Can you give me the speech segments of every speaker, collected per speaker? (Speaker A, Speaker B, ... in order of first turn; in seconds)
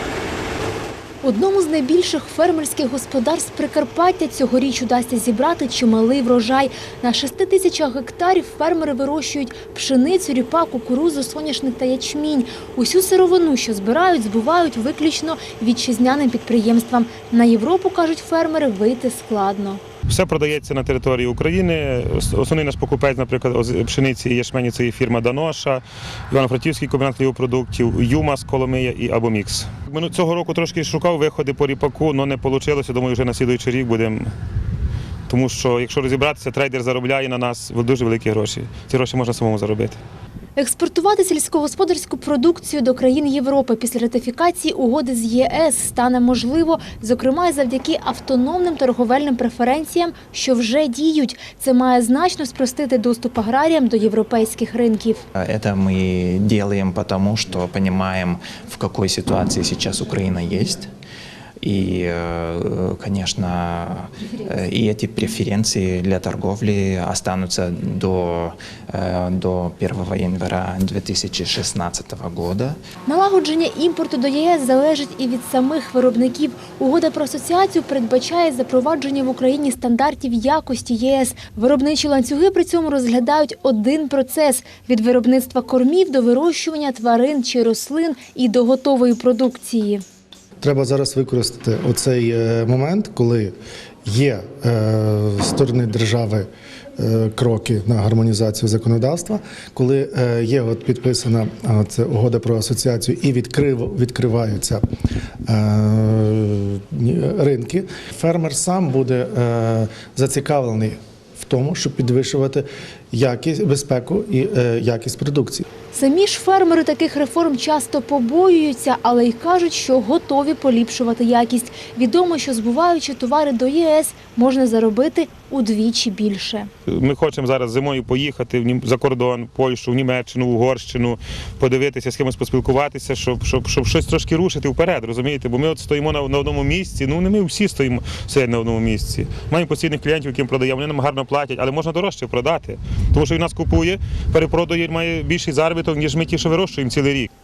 Speaker A: 1.2-19.8, 40.5-55.2, 73.0-90.0, 115.9-126.7
Speaker B: 20.1-34.3, 35.3-40.0, 126.9-147.3
Speaker C: 55.4-60.9, 61.6-72.8
Speaker D: 90.6-93.5, 94.0-104.8, 105.5-115.7